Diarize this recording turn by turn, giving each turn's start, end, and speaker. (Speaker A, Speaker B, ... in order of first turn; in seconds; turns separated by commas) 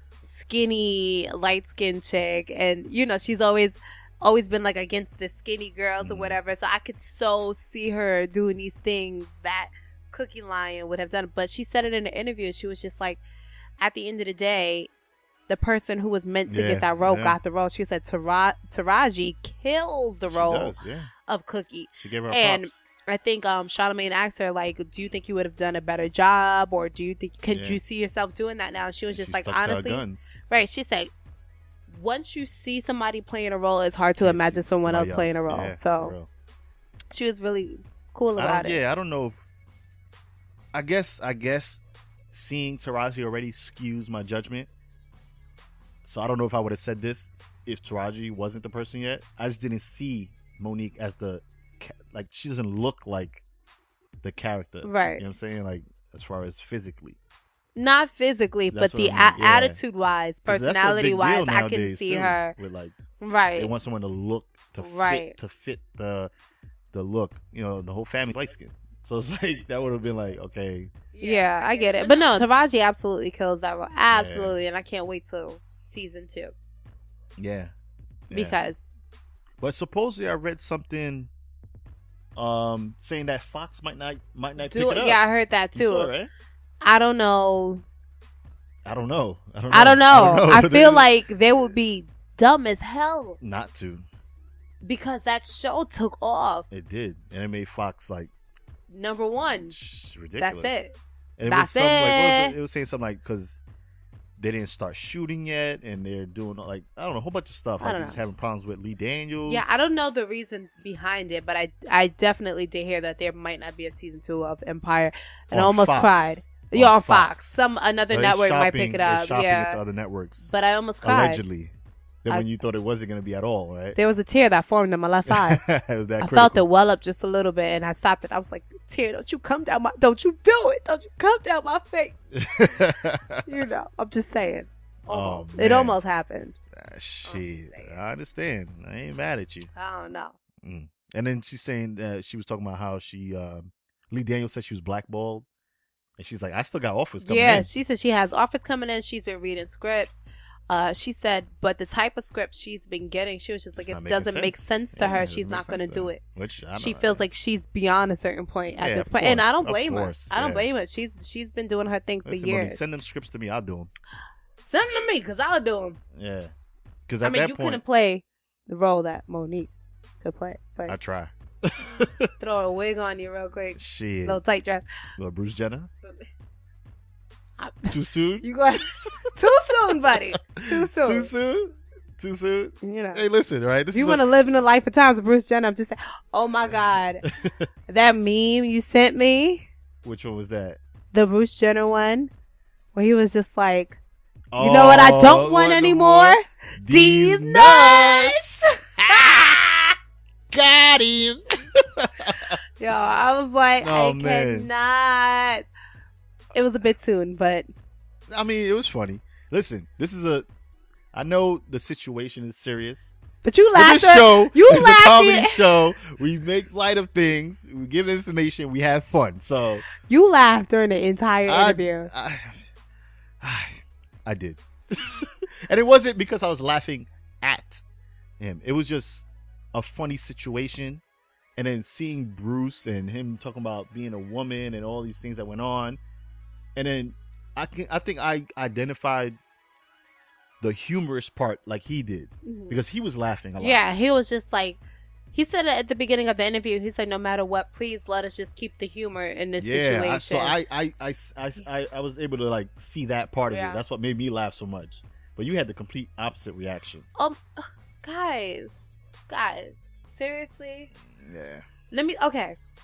Speaker A: 0.2-13.2, Speaker B: 6.0-6.4, Speaker A: 13.8-14.9, Speaker A: 15.5-20.8, Speaker B: 16.5-17.4, Speaker B: 20.2-21.1, Speaker A: 21.3-31.1, Speaker B: 22.0-22.9, Speaker B: 27.5-27.8, Speaker B: 29.1-30.3, Speaker A: 31.9-36.1, Speaker B: 34.2-36.3, Speaker A: 37.1-38.8, Speaker B: 38.4-39.4, Speaker B: 40.7-44.7, Speaker B: 46.0-53.4, Speaker B: 54.2-57.2, Speaker A: 54.8-55.2, Speaker A: 57.8-62.5, Speaker B: 58.7-59.8, Speaker B: 60.5-63.0, Speaker A: 63.2-63.7, Speaker B: 63.6-66.3, Speaker A: 64.8-65.3, Speaker B: 66.9-71.3, Speaker A: 71.2-76.5, Speaker B: 74.1-74.6, Speaker B: 77.4-77.7, Speaker B: 78.3-78.6, Speaker A: 78.3-78.8, Speaker B: 79.6-81.3, Speaker B: 82.4-85.2, Speaker A: 84.6-86.1, Speaker B: 85.7-86.3, Speaker A: 86.8-87.8, Speaker B: 88.8-91.1, Speaker A: 89.7-93.4, Speaker B: 93.4-94.1, Speaker A: 94.8-96.7, Speaker B: 96.7-98.3, Speaker A: 98.9-99.8, Speaker B: 99.5-103.6, Speaker A: 100.4-101.0, Speaker A: 101.5-102.5, Speaker B: 104.4-109.7, Speaker A: 107.8-108.2, Speaker A: 109.5-119.8, Speaker B: 115.5-117.6, Speaker B: 118.1-120.5, Speaker A: 120.4-121.4, Speaker B: 121.0-124.0, Speaker A: 124.0-125.6, Speaker B: 125.3-126.6, Speaker A: 126.2-132.2, Speaker B: 132.3-133.5, Speaker A: 133.5-136.6, Speaker B: 135.1-136.0, Speaker B: 136.8-139.7, Speaker A: 137.2-137.9, Speaker A: 139.7-140.4, Speaker B: 140.6-145.5, Speaker B: 146.2-147.7, Speaker A: 147.2-156.2, Speaker B: 153.8-157.3, Speaker A: 156.8-162.8, Speaker B: 158.8-160.7, Speaker B: 162.2-163.9, Speaker A: 164.7-166.0, Speaker B: 166.2-166.5, Speaker B: 167.1-167.8, Speaker A: 167.2-169.7, Speaker A: 170.2-171.0, Speaker B: 170.9-172.3, Speaker A: 172.4-174.8, Speaker B: 173.8-174.4, Speaker B: 175.2-175.9, Speaker A: 177.6-181.3, Speaker B: 177.9-179.4, Speaker B: 180.0-184.2, Speaker A: 182.8-183.2, Speaker A: 183.9-187.2, Speaker B: 187.2-187.7, Speaker A: 187.9-189.7, Speaker B: 190.0-190.8, Speaker A: 191.1-192.3, Speaker A: 192.9-194.0, Speaker B: 194.5-199.5, Speaker A: 194.6-199.9, Speaker B: 200.5-202.6, Speaker A: 202.8-205.7, Speaker B: 203.8-204.7, Speaker A: 206.5-207.7, Speaker B: 208.3-210.5, Speaker B: 211.1-213.2, Speaker A: 213.4-215.6, Speaker B: 213.8-219.9, Speaker A: 220.0-222.1, Speaker B: 221.5-222.7, Speaker B: 223.4-227.8, Speaker B: 228.4-231.0, Speaker B: 231.6-236.0, Speaker B: 236.8-239.4, Speaker B: 240.6-243.8, Speaker A: 242.4-242.8, Speaker A: 243.6-244.8, Speaker A: 245.3-250.6, Speaker B: 249.6-257.1, Speaker A: 253.5-253.8, Speaker A: 257.2-258.8, Speaker A: 259.3-260.9, Speaker B: 261.1-261.6, Speaker A: 261.9-262.6